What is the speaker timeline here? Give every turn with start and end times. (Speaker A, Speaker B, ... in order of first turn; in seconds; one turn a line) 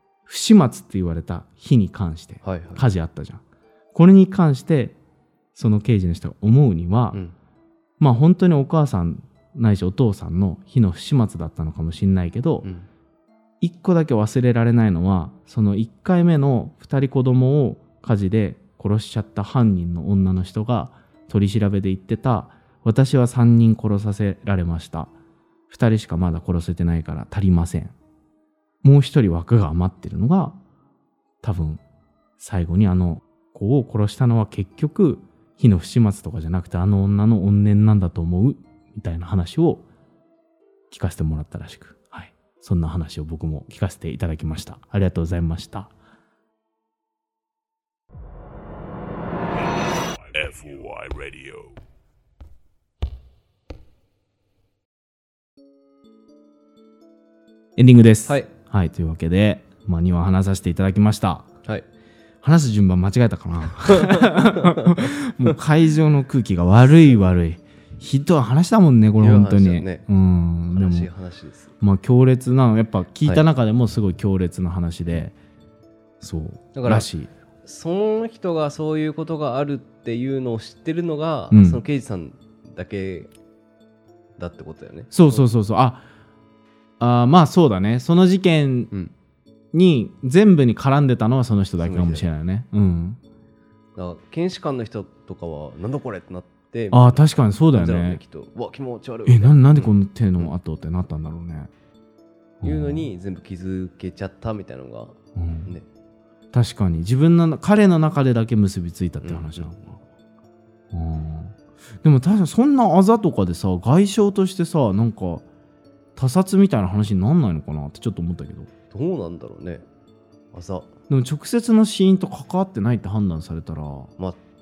Speaker A: 0.2-3.4
Speaker B: 2.4-2.8
Speaker A: 3.9-5.0
Speaker A: 5.5-7.2
Speaker A: 8.0-12.7
Speaker A: 13.6-25.1
Speaker A: 25.7-27.9
Speaker A: 28.8-30.6
Speaker A: 31.4-31.8
Speaker A: 32.4-39.8
Speaker A: 40.9-45.9
Speaker C: 49.5-51.8
Speaker A: 57.8-61.5
Speaker A: 62.4-71.1
Speaker B: 63.9-64.8
Speaker B: 69.2-70.0
Speaker B: 70.7-71.7
Speaker A: 71.8-75.3
Speaker A: 76.2-77.3
Speaker B: 76.7-77.1
Speaker B: 77.6-83.3
Speaker A: 81.5-81.8
Speaker B: 84.4-85.5
Speaker A: 85.1-86.0
Speaker A: 87.0-88.9
Speaker A: 89.7-93.2
Speaker B: 91.8-92.2
Speaker B: 94.0-100.5
Speaker A: 96.9-98.2
Speaker A: 99.3-101.7
Speaker A: 102.6-103.1
Speaker B: 102.6-105.8
Speaker A: 105.3-105.7
Speaker A: 106.5-110.0
Speaker B: 109.2-109.7
Speaker A: 110.9-115.4
Speaker A: 116.2-118.7
Speaker B: 118.9-119.8
Speaker B: 120.5-120.9
Speaker A: 121.1-124.1